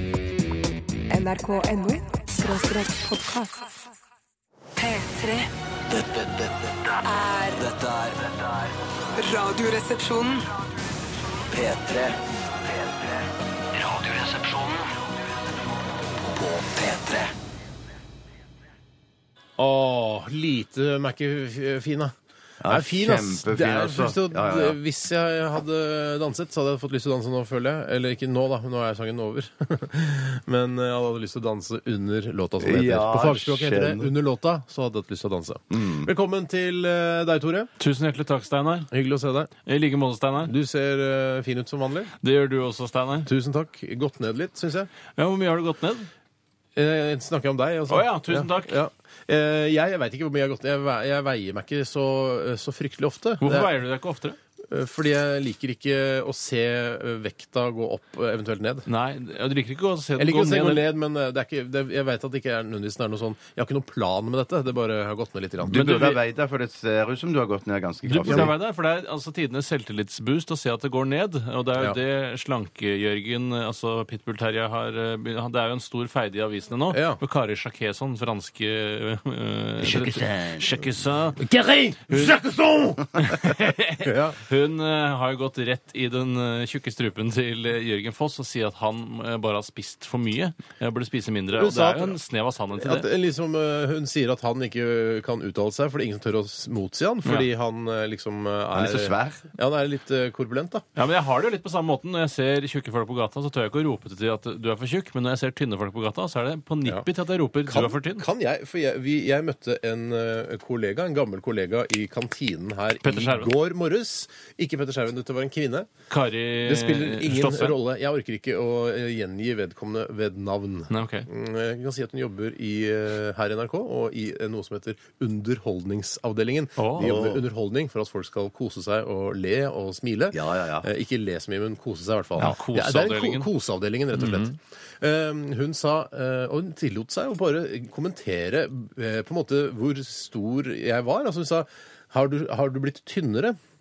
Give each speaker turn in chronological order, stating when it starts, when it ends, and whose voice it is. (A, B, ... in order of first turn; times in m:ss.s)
0:01.1-0:03.7 A
0:04.8-0:05.5 A
0:05.9-0:06.7 B
0:07.0-0:07.6 A
0:07.6-0:08.7 B
0:09.2-0:10.5 A
0:11.5-0:13.2 B
0:13.7-0:14.9 B
0:16.2-0:17.3 B
0:19.6-0:37.7 C
0:22.6-0:24.8 D
0:32.6-0:34.1 D
0:35.7-0:36.1 D
0:37.8-0:38.9 E
0:38.9-0:39.5 C
0:39.6-0:40.5 E
0:40.4-0:42.1 C
0:42.2-0:43.3 E
0:43.2-0:44.9 C
0:45.2-0:46.1 E
0:46.8-0:53.7 C
0:47.9-0:48.8 E
0:53.4-0:54.4 E
0:54.7-0:58.8 C
0:58.9-1:00.8 E
1:00.2-1:06.2 C
1:05.6-1:08.5 D
1:05.7-1:06.1 E
1:08.0-1:21.4 E
1:08.2-1:08.5 C
1:16.9-1:17.2 C
1:19.8-1:20.7 D
1:21.4-1:24.4 C
1:22.1-1:22.4 E
1:23.2-1:33.1 E
1:31.5-1:32.2 C
1:32.8-1:40.8 C
1:38.7-1:39.4 D
1:40.9-1:48.2 E
1:47.6-1:55.9 C
1:53.0-1:53.6 E
1:56.1-1:57.8 E
1:56.6-2:23.6 C
2:00.9-2:01.3 E
2:06.8-2:07.1 E
2:07.0-2:07.4 D
2:10.3-2:10.9 D
2:12.4-2:13.5 E
2:14.1-2:14.5 E